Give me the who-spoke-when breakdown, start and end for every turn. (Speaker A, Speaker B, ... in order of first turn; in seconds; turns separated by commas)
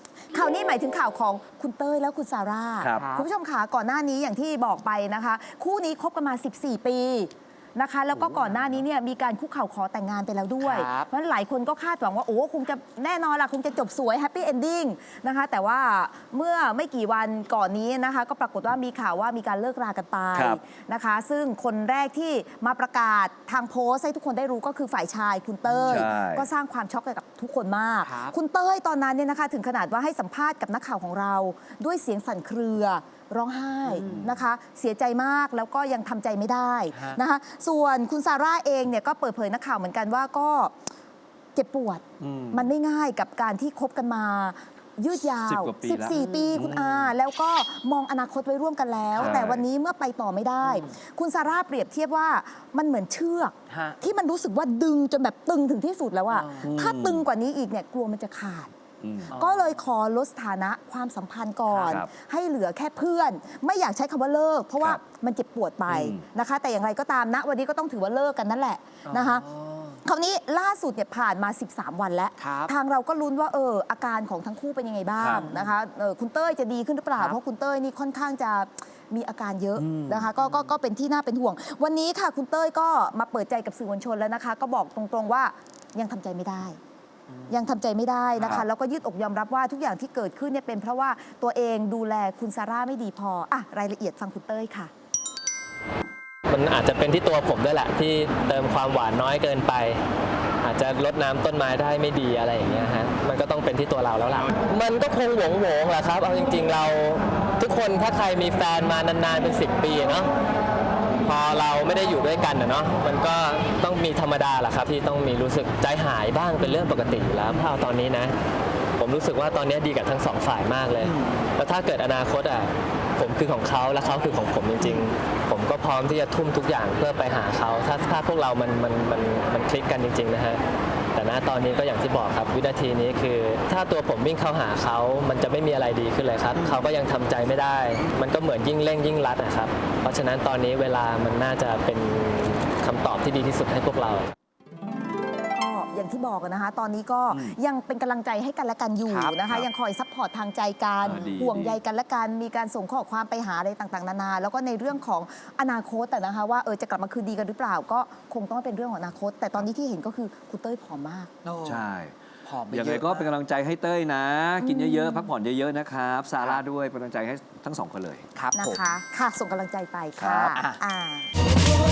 Speaker A: 0.3-40.7, Speaker B: 2.9-3.3, Speaker B: 10.6-11.1, Speaker C: 20.3-20.6, Speaker B: 25.7-26.0, Speaker C: 25.8-26.5, Speaker B: 28.0-28.3, Speaker B: 33.9-34.3, Speaker C: 34.0-34.4, Speaker B: 36.9-37.2, Speaker A: 41.5-58.7, Speaker C: 42.2-42.7, Speaker C: 45.4-47.1, Speaker B: 46.1-46.5, Speaker C: 49.1-49.6, Speaker B: 50.6-50.9, Speaker B: 53.7-54.0, Speaker B: 56.3-56.7, Speaker C: 56.6-57.2, Speaker C: 59.0-59.3, Speaker A: 59.3-69.5, Speaker B: 59.3-59.7, Speaker B: 61.7-62.0, Speaker C: 61.8-62.1, Speaker C: 65.9-66.2, Speaker B: 69.1-70.0, Speaker A: 70.0-86.8, Speaker B: 72.4-72.7, Speaker C: 75.2-75.5, Speaker B: 75.3-75.7, Speaker C: 79.8-80.3, Speaker A: 87.5-94.9, Speaker C: 88.4-88.7, Speaker D: 96.5-100.0, Speaker D: 100.6-110.3, Speaker D: 111.2-118.3, Speaker D: 119.0-130.6, Speaker D: 131.1-144.3, Speaker A: 145.5-161.3, Speaker C: 147.3-147.6, Speaker B: 149.1-149.4, Speaker C: 151.0-151.8, Speaker B: 161.4-161.8, Speaker C: 161.6-162.1, Speaker B: 162.4-163.3, Speaker C: 162.7-168.3, Speaker A: 164.6-165.3, Speaker B: 168.3-168.9, Speaker A: 168.5-171.3, Speaker C: 170.2-170.6, Speaker B: 170.5-170.8